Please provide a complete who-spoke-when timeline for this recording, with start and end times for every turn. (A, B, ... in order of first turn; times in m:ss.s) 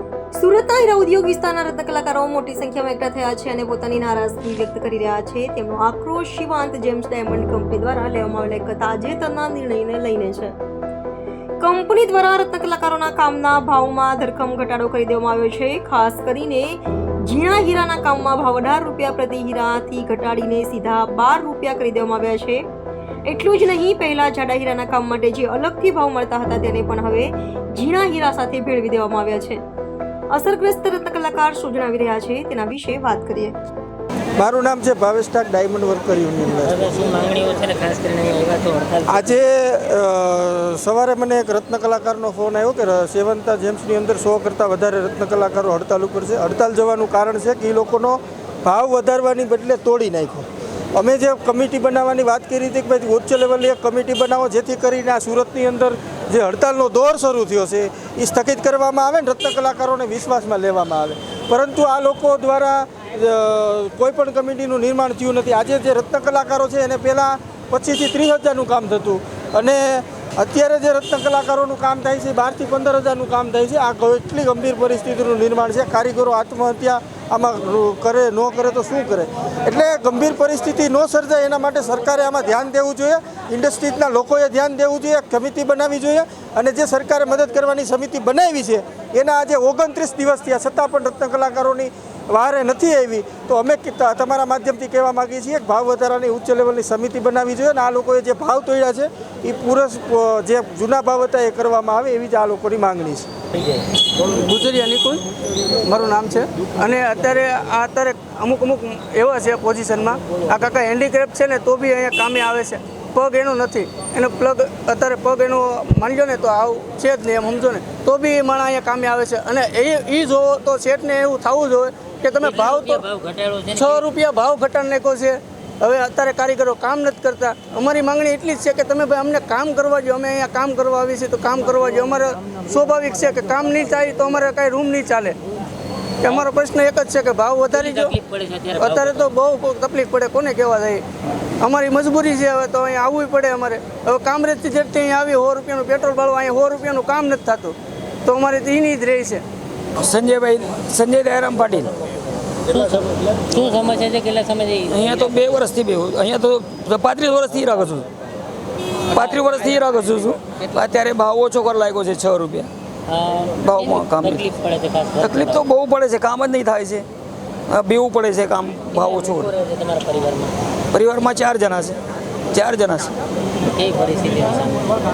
0:00.3-0:10.6 A
0:11.6-0:22.6 A
0:23.2-0:29.6 A
0:30.3-0:33.6 A
0:34.4-0:36.9 B
0:36.6-0:39.3 C
0:39.1-1:43.3 B
1:44.2-1:45.2 D
1:45.8-2:03.0 D
2:02.4-2:04.0 C
2:03.7-2:15.4 D
2:16.2-2:18.1 D
2:17.7-2:19.3 C
2:18.8-2:21.0 D
2:21.6-2:29.4 D
2:30.0-2:31.9 E
2:32.7-2:35.6 C
2:34.9-2:38.1 E
2:39.1-2:42.7 E
2:43.1-2:45.6 C
2:43.6-2:44.5 E
2:45.2-2:47.1 E
2:47.7-2:49.5 E
2:48.9-2:50.6 C
2:50.9-2:52.0 E
2:52.5-2:53.2 E
2:53.7-2:55.0 C